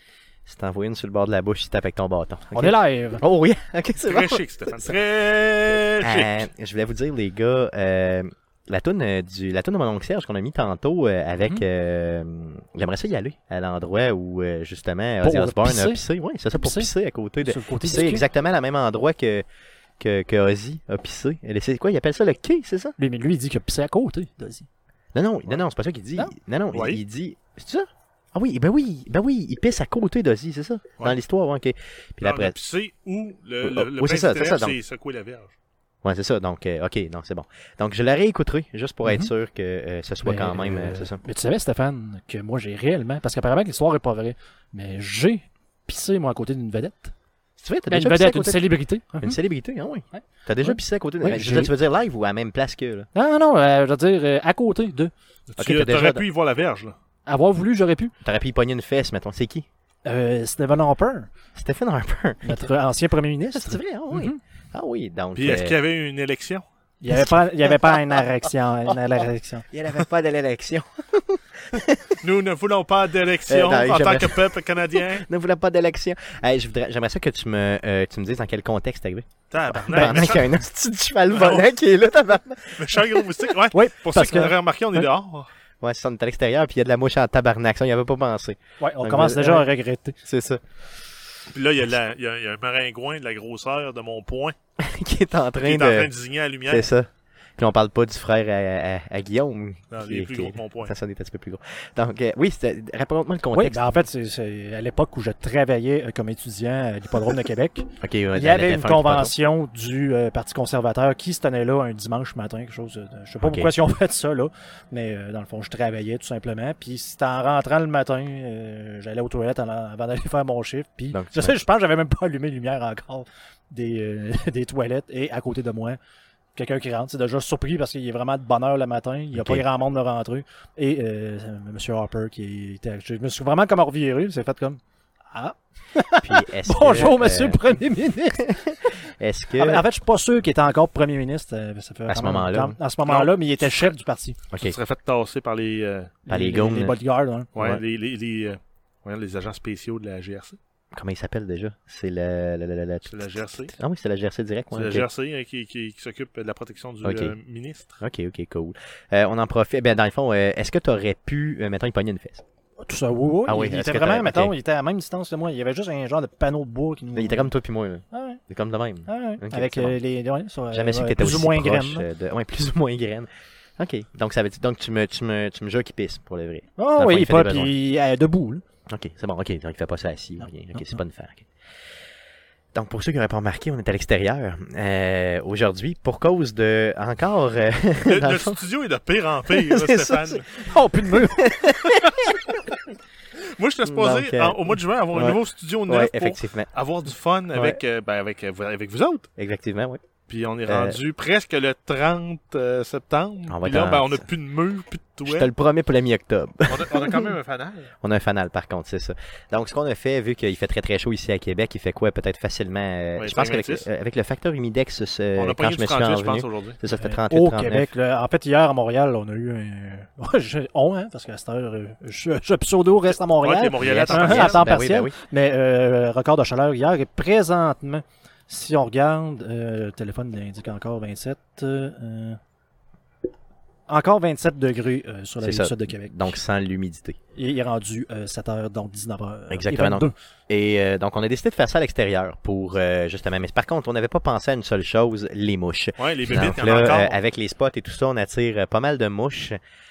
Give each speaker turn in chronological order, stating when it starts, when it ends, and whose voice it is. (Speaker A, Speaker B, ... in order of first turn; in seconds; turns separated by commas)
Speaker A: 0.5-5.0, Speaker B: 2.5-3.2, Speaker C: 4.0-6.5, Speaker A: 6.0-19.4, Speaker B: 15.2-18.2, Speaker A: 20.0-22.9, Speaker B: 23.0-24.7, Speaker A: 25.1-32.5, Speaker C: 26.7-27.0, Speaker C: 32.2-35.5, Speaker A: 33.6-34.8, Speaker A: 36.0-41.2, Speaker B: 39.0-39.3, Speaker B: 40.2-47.1, Speaker A: 47.6-48.6, Speaker B: 47.9-49.4, Speaker A: 49.2-53.1, Speaker B: 50.1-51.7, Speaker B: 53.1-55.1, Speaker C: 55.5-56.9, Speaker A: 55.6-56.2, Speaker B: 57.2-58.1, Speaker A: 58.2-59.7, Speaker B: 60.0-61.3, Speaker A: 61.6-62.7, Speaker B: 62.4-64.4, Speaker A: 63.5-65.8, Speaker C: 65.3-66.7, Speaker B: 67.0-69.7, Speaker A: 67.1-67.8, Speaker A: 69.7-72.2, Speaker C: 72.2-75.2, Speaker A: 73.5-79.3, Speaker C: 79.5-80.5, Speaker B: 79.9-80.2, Speaker A: 79.9-83.3, Speaker C: 81.3-81.7, Speaker C: 82.8-85.5, Speaker B: 83.7-85.0, Speaker A: 85.8-89.7, Speaker B: 88.8-90.2, Speaker A: 90.2-90.6, Speaker C: 91.5-94.5, Speaker A: 94.8-96.1, Speaker C: 95.6-96.9, Speaker A: 96.7-104.0, Speaker C: 99.9-100.9, Speaker B: 103.5-126.0, Speaker A: 108.0-109.3, Speaker A: 113.4-113.7, Speaker A: 121.1-121.6, Speaker B: 126.5-134.8, Speaker A: 129.3-129.6, Speaker B: 135.3-139.0, Speaker A: 136.2-138.4, Speaker A: 139.2-139.9, Speaker B: 139.6-144.4, Speaker A: 142.1-142.8, Speaker C: 143.1-143.9, Speaker A: 144.5-144.8, Speaker C: 144.6-146.2, Speaker B: 146.3-147.5, Speaker A: 146.3-147.0, Speaker C: 147.6-150.6, Speaker A: 147.6-147.8, Speaker A: 150.9-155.1, Speaker C: 153.1-153.7, Speaker C: 154.7-158.0, Speaker A: 157.0-157.4, Speaker A: 158.0-162.4, Speaker B: 162.8-167.5, Speaker A: 163.5-164.5, Speaker A: 167.1-170.0, Speaker B: 168.1-168.4, Speaker B: 169.1-172.1, Speaker A: 170.7-177.7, Speaker B: 176.8-178.6, Speaker A: 178.9-181.5, Speaker A: 182.7-188.6, Speaker C: 188.1-190.5, Speaker A: 189.5-192.4, Speaker B: 190.6-191.6, Speaker C: 193.6-199.3, Speaker A: 193.8-196.7, Speaker A: 199.4-200.0, Speaker C: 200.3-205.5, Speaker A: 200.7-201.0, Speaker A: 203.5-204.3, Speaker A: 205.2-207.3, Speaker C: 206.7-207.9, Speaker A: 208.0-217.9, Speaker C: 213.2-213.9, Speaker C: 215.3-216.8, Speaker B: 216.9-232.4, Speaker C: 223.4-224.7, Speaker A: 223.8-225.2, Speaker B: 233.9-236.4, Speaker A: 235.4-237.2, Speaker B: 237.4-240.1, Speaker A: 239.5-249.6, Speaker C: 246.0-247.2